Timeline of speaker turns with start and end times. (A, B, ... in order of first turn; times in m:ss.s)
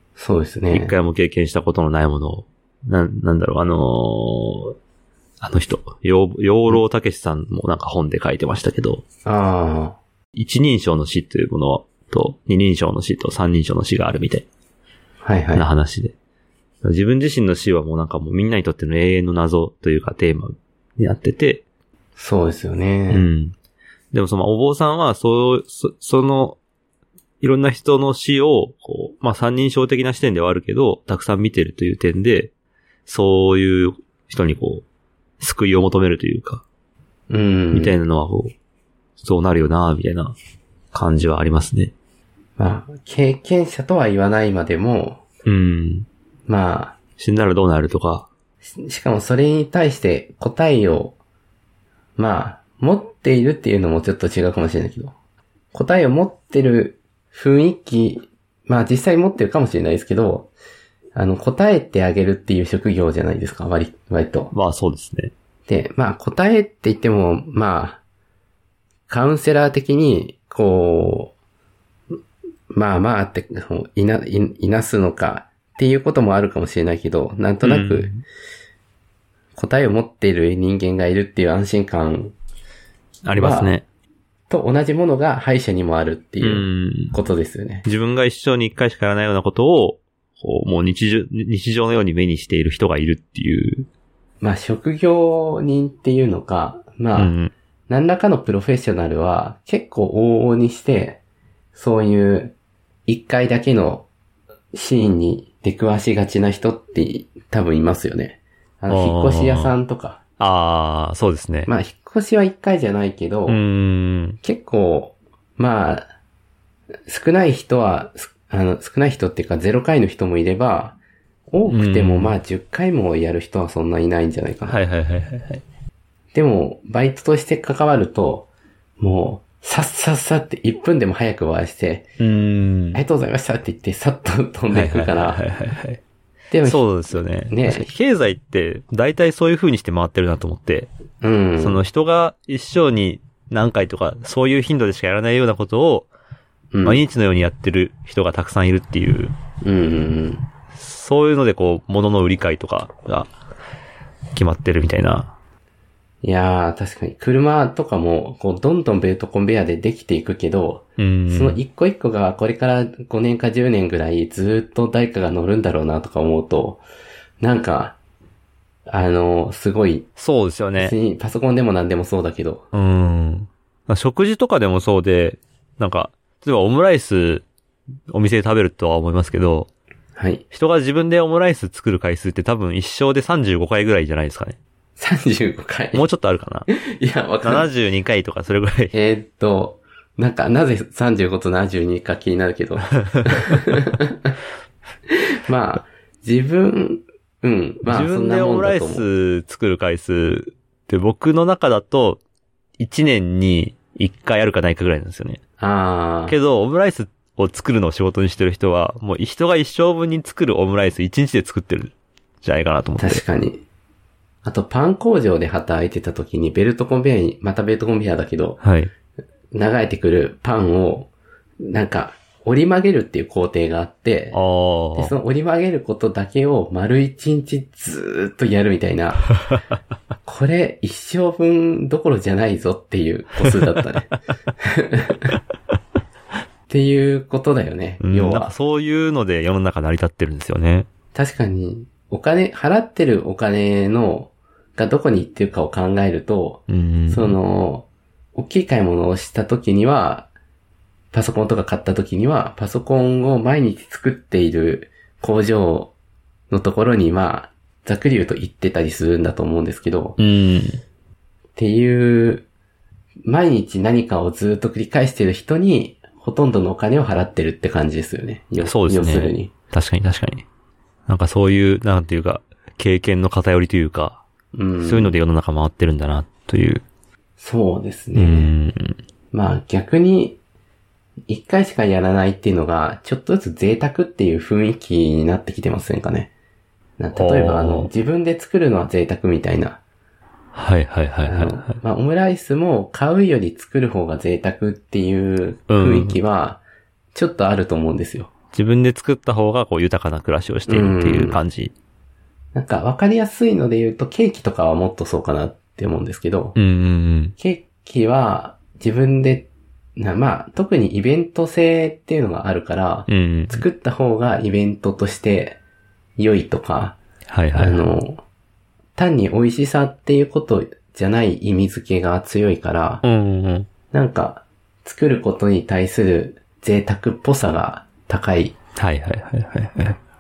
0:00.2-0:00.9 A
0:00.7-0:04.7 B
0:05.4-0:09.0 B
0:09.2-0:10.0 A
0:10.4-0:14.5 B
0:15.2-0:15.7 A
0:15.5-0:16.2 B
0:16.8-0:21.6 B
0:22.2-0:23.2 A
0:23.1-0:23.6 B
0:24.1-0:26.6 B
0:27.4-0:32.5 B
0:33.1-0:34.8 B
0:35.4-0:36.6 B
0:37.3-0:38.0 A
0:37.7-0:38.5 B
0:39.2-0:40.4 B
0:40.9-0:41.9 B
0:42.6-0:45.2 A
0:45.4-0:46.1 B
0:46.5-0:47.0 A
0:47.2-0:48.3 B
0:48.7-0:51.2 A
0:52.2-0:55.1 A
0:55.7-1:00.5 A
1:01.2-1:04.5 A
1:04.5-1:05.3 B
1:05.7-1:08.0 A
1:09.1-1:11.3 A
1:12.7-1:18.1 A
1:17.6-1:18.2 B
1:19.6-1:22.4 A
1:23.2-1:23.8 B
1:23.4-1:23.7 A
1:24.5-1:27.8 A
1:26.4-1:27.2 B
1:27.8-1:33.9 B
1:34.4-1:37.3 A
1:37.2-1:37.5 B
1:37.9-1:41.2 A
1:41.7-1:42.5 A
1:43.1-1:44.1 A
1:44.7-1:50.2 A
1:48.9-1:49.7 B
1:50.4-1:51.7 B
1:51.7-1:53.6 A
1:53.5-1:54.4 B
1:54.4-1:56.0 A
1:57.1-2:01.0 A
2:01.5-2:04.8 A
2:01.7-2:02.4 B
2:04.7-2:05.6 B
2:06.3-2:08.5 A
2:09.0-2:12.1 A
2:12.2-2:13.0 B
2:12.9-2:15.4 A
2:14.7-2:16.0 B
2:16.5-2:16.8 A
2:16.6-2:20.9 B
2:17.5-2:17.9 A
2:21.2-2:21.8 A
2:21.6-2:26.1 B
2:26.7-2:27.0 A
2:26.8-2:29.3 B
2:29.6-2:30.4 A
2:30.7-2:33.3 B
2:34.4-2:35.3 B
2:36.2-2:46.8 A
2:41.0-2:41.6 B
2:47.4-2:48.0 A
2:48.9-2:50.1 A
2:50.2-2:51.0 B
2:50.8-2:52.6 A
2:52.7-2:57.5 B
2:58.1-2:59.7 B
3:00.2-3:00.4 A
3:00.5-3:04.6 B
3:05.0-3:06.0 A
3:05.9-3:06.7 B
3:06.7-3:07.7 A
3:07.4-3:08.9 B
3:08.9-3:14.3 A
3:13.1-3:13.6 B
3:15.1-3:19.0 A
3:17.9-3:22.2 B
3:22.8-3:25.4 B
3:25.6-3:26.4 A
3:26.3-3:33.2 B
3:33.0-3:33.6 A
3:34.4-3:38.6 A
3:38.6-3:38.9 B
3:39.5-3:41.1 A
3:41.6-3:44.4 A
3:44.3-3:45.2 B
3:45.0-3:49.3 A
3:50.3-3:54.1 A
3:54.6-3:55.3 A
3:56.7-3:58.5 A
3:58.0-4:00.9 B
4:01.1-4:10.3 A
4:06.7-4:07.4 B
4:11.1-4:15.9 A
4:16.5-4:20.2 A
4:20.2-4:20.8 B
4:21.6-4:22.4 A
4:23.2-4:29.5 A
4:28.6-4:30.4 B
4:31.1-4:34.2 B
4:34.5-4:35.1 A
4:34.8-4:36.8 B
4:37.4-4:38.5 A
4:38.2-4:39.0 B
4:39.3-4:40.4 A
4:41.3-4:46.3 A
4:47.0-4:49.8 A
4:47.1-4:47.9 B
4:50.6-4:51.8 B
4:51.3-4:56.6 A
4:55.7-4:56.2 B
4:57.1-4:58.3 A
4:58.5-5:01.7 B
5:00.7-5:01.4 A
5:02.5-5:06.6 A
5:06.6-5:07.4 B
5:07.4-5:15.6 A
5:13.1-5:13.7 B
5:16.2-5:17.0 A
5:17.3-5:17.8 B
5:17.6-5:18.2 A
5:19.0-5:23.0 A
5:23.0-5:23.7 B
5:23.9-5:28.5 A
5:28.8-5:30.0 B